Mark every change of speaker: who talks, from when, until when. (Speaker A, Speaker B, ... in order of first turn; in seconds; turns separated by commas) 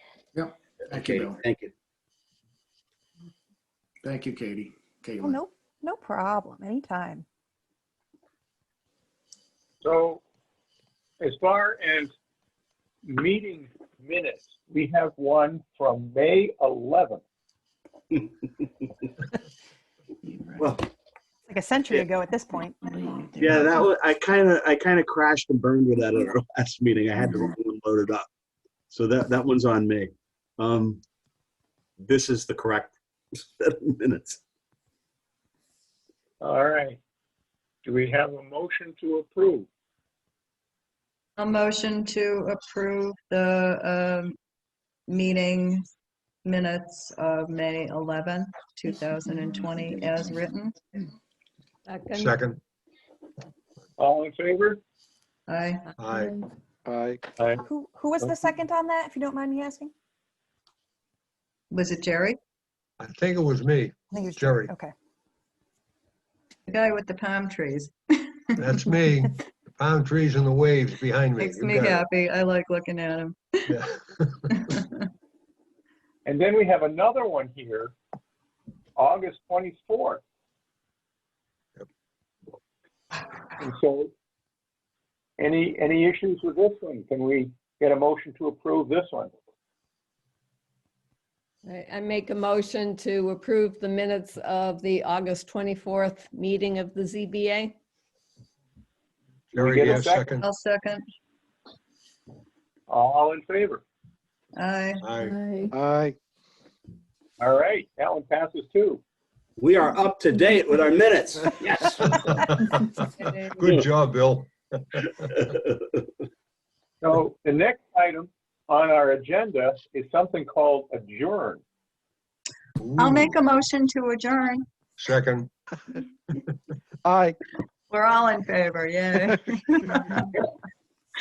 Speaker A: 0.3-1.4, Speaker B: 0.9-1.7, Speaker A: 4.0-5.5, Speaker C: 5.2-7.2, Speaker D: 9.8-10.2, Speaker D: 11.2-12.1, Speaker D: 13.1-17.2, Speaker B: 20.6-20.9, Speaker C: 21.5-23.4, Speaker B: 23.4-28.3, Speaker B: 28.9-31.0, Speaker B: 32.0-32.9, Speaker B: 33.6-34.4, Speaker D: 36.4-37.0, Speaker D: 37.9-39.7, Speaker E: 41.4-44.4, Speaker E: 45.1-45.9, Speaker E: 46.5-51.0, Speaker F: 51.9-52.3, Speaker G: 52.1-52.6, Speaker D: 54.0-54.8, Speaker E: 55.5-55.9, Speaker G: 56.0-56.4, Speaker C: 56.9-59.9, Speaker D: 57.4-57.7, Speaker E: 61.7-62.4, Speaker G: 63.0-64.7, Speaker C: 64.1-64.9, Speaker E: 66.7-68.6, Speaker G: 68.6-72.1, Speaker E: 71.4-73.8, Speaker G: 73.7-74.5, Speaker E: 74.5-74.9, Speaker D: 76.3-77.9, Speaker D: 79.0-80.2, Speaker D: 83.6-84.1, Speaker D: 85.4-89.3, Speaker F: 91.6-97.7, Speaker G: 99.5-100.5, Speaker D: 99.5-100.3, Speaker E: 100.4-101.0, Speaker D: 102.9-103.8, Speaker E: 104.6-105.0, Speaker G: 105.0-105.4, Speaker F: 105.2-105.7, Speaker C: 105.7-106.2, Speaker D: 107.4-109.0, Speaker B: 109.6-112.2, Speaker G: 112.0-115.1, Speaker D: 117.0-121.6, Speaker G: 122.8-123.3, Speaker E: 123.0-124.7, Speaker G: 125.0-125.5, Speaker C: 127.0-127.4, Speaker E: 127.9-130.3